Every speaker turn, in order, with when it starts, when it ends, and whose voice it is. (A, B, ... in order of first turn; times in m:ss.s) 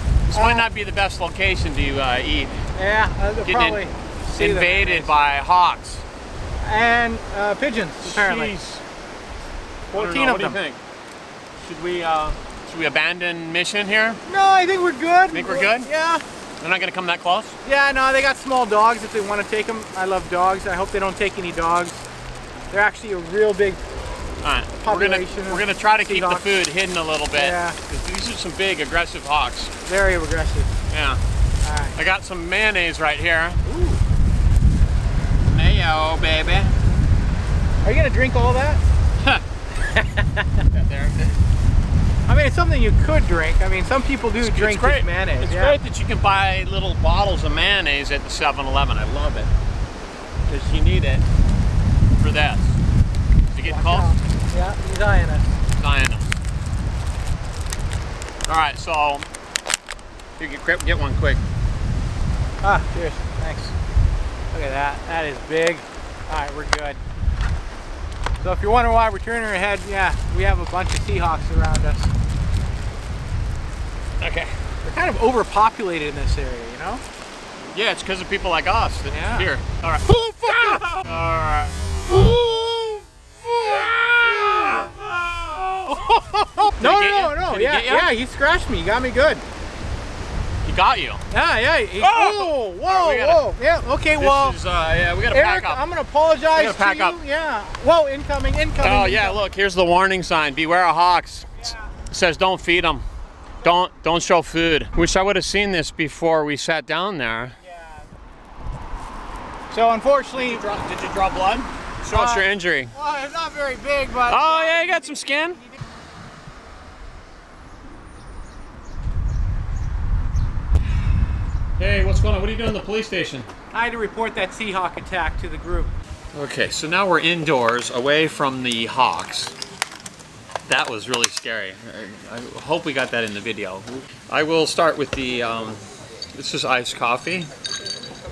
0:00.3-0:02.6 A
0:00.3-0:00.7 B
0:02.8-0:05.2 B
0:03.4-0:03.8 A
0:04.3-0:06.0 A
0:06.6-0:08.5 B
0:08.0-0:08.8 A
0:09.9-0:10.6 B
0:09.9-0:10.8 A
0:11.6-0:14.2 A
0:14.3-0:16.2 B
0:15.3-0:15.9 A
0:16.6-0:17.6 A
0:17.6-0:22.1 B
0:22.7-0:23.8 B
0:24.4-0:29.7 A
0:24.8-0:26.5 B
0:27.3-0:27.8 B
0:29.8-0:30.7 B
0:30.9-0:31.2 A
0:31.6-0:32.0 B
0:32.0-0:33.6 A
0:33.6-0:34.0 B
0:35.4-0:36.7 A
0:37.8-0:38.8 B
0:39.8-0:40.6 B
0:40.7-0:41.4 A
0:42.3-0:45.8 B
0:44.4-0:49.5 A
0:50.5-0:51.2 A
0:52.2-0:52.8 A
0:53.5-0:54.2 A
0:53.6-0:55.5 B
0:55.8-0:56.3 A
0:58.5-0:59.3 A
1:00.4-1:01.4 A
1:02.6-1:03.7 B
1:04.5-1:07.0 B
1:08.4-1:12.1 B
1:14.2-1:14.6 A
1:14.8-1:17.0 B
1:17.7-1:26.2 A
1:19.1-1:19.5 B
1:20.1-1:20.9 B
1:25.9-1:29.4 B
1:26.7-1:28.1 A
1:30.6-1:31.2 A
1:31.3-1:34.6 B
1:32.0-1:33.4 A
1:34.1-1:35.8 A
1:35.3-1:39.4 B
1:36.6-1:37.2 A
1:38.8-1:43.0 A
1:43.6-1:47.6 A
1:47.7-1:48.0 B
1:49.7-1:50.6 B
1:50.4-1:53.0 A
1:52.1-1:54.9 B
1:54.3-1:55.6 A
2:01.8-2:03.5 A
2:03.7-2:05.9 B
2:06.3-2:09.5 A
2:10.7-2:15.8 A
2:16.3-2:17.5 A